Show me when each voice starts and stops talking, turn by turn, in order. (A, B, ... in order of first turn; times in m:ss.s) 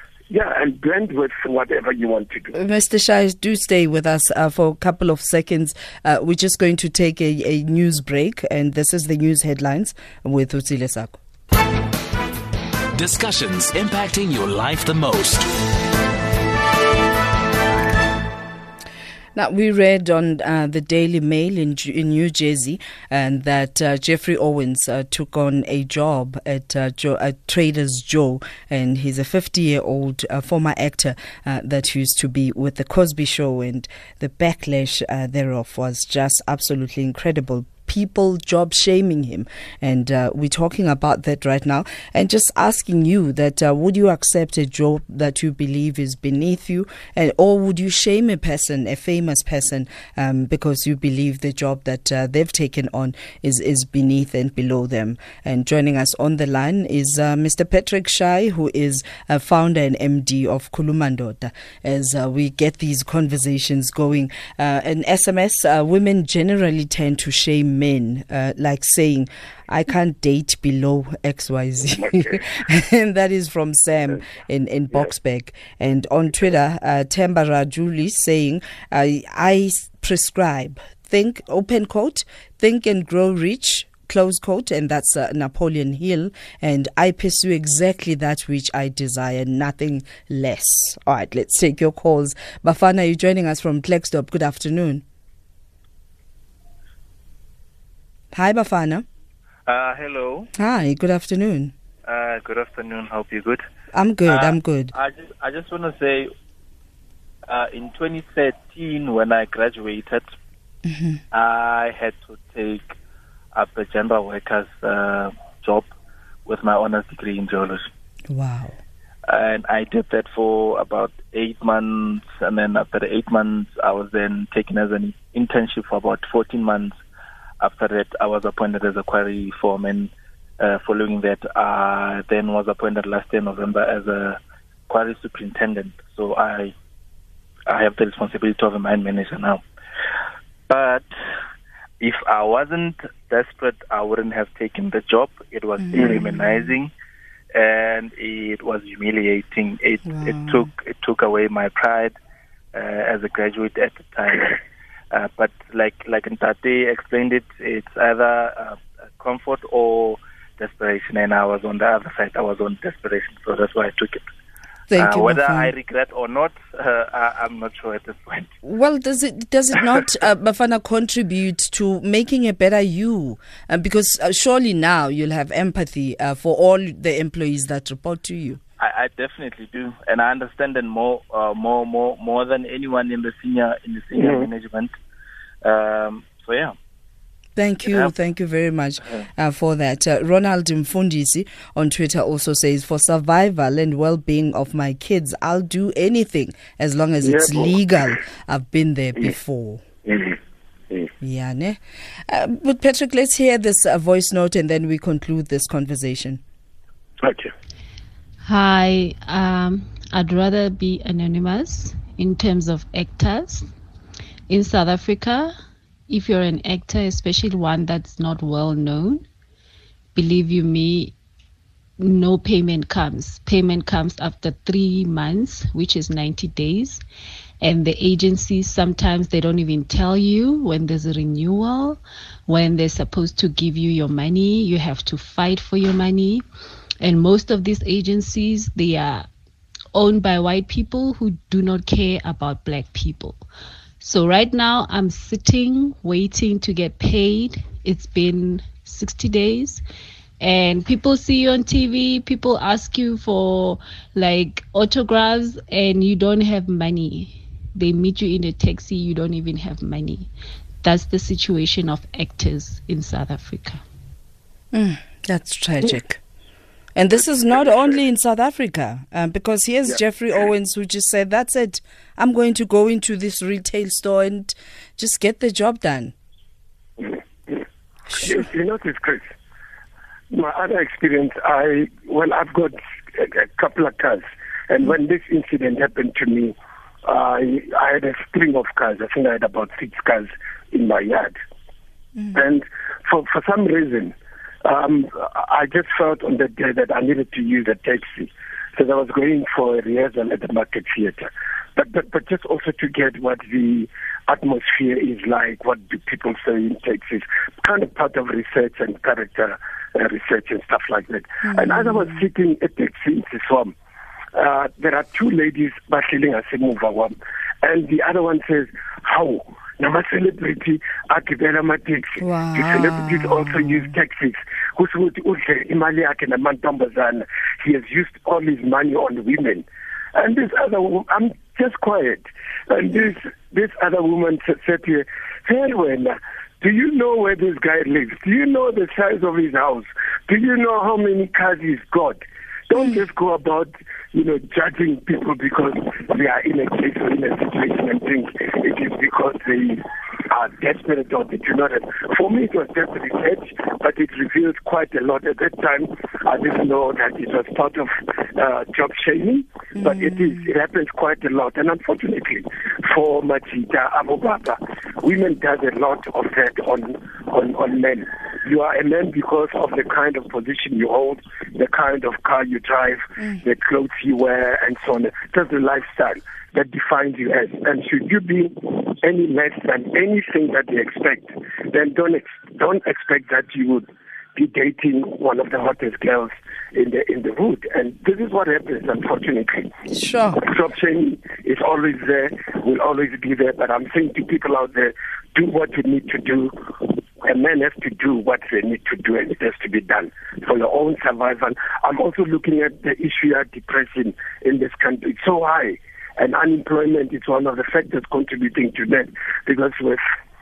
0:00.3-0:02.5 A
0:02.5-0:11.2 B
0:12.9-0:15.5 C
0:19.3-1:35.0 B
1:38.3-1:39.0 B
1:39.7-1:40.5 D
1:40.6-1:41.7 B
1:42.0-1:43.6 D
1:43.9-1:44.9 B
1:44.3-1:46.3 D
1:47.5-1:50.2 D
1:50.8-1:51.2 B
1:51.3-1:52.9 D
1:53.5-1:55.9 D
1:56.4-1:57.8 D
1:58.3-1:58.8 B
1:59.3-2:07.0 D
2:07.6-2:14.4 D
2:14.9-2:16.7 D
2:17.7-2:19.6 D
2:20.7-2:21.0 D
2:22.0-2:26.9 D
2:25.8-2:26.7 B
2:27.5-2:32.1 D
2:30.1-2:30.7 B
2:32.7-2:34.6 D
2:35.1-2:44.2 D
2:44.9-2:45.7 B
2:45.0-2:48.5 D
2:48.6-2:58.6 B
2:58.8-3:04.9 D
3:04.2-3:04.5 A
3:05.6-3:06.7 D
3:07.6-3:19.8 B
3:07.8-3:08.1 D
3:17.2-3:17.8 A
3:20.1-3:20.3 A
3:21.2-3:21.8 B
3:22.3-3:26.4 B
3:27.2-3:27.5 A
3:28.4-3:33.7 E
3:34.5-3:35.5 E
3:36.1-3:39.2 E
3:40.1-3:41.1 E
3:42.0-3:47.0 E
3:47.6-3:56.4 E
3:57.0-3:59.2 E
3:59.9-4:03.4 E
4:04.0-4:09.8 E
4:10.4-4:20.3 E
4:20.8-4:23.8 E
4:24.7-4:26.2 B
4:27.0-4:36.1 B
4:27.6-4:28.0 A
4:37.0-4:37.6 A
4:38.1-4:38.4 B
4:38.1-4:39.3 A
4:40.3-4:51.4 A
4:52.3-5:13.7 A
5:11.5-5:12.1 B
5:14.3-6:29.7 A
5:22.2-5:23.9 B
5:59.8-6:00.4 B
6:29.9-6:30.4 B
6:30.3-6:50.0 A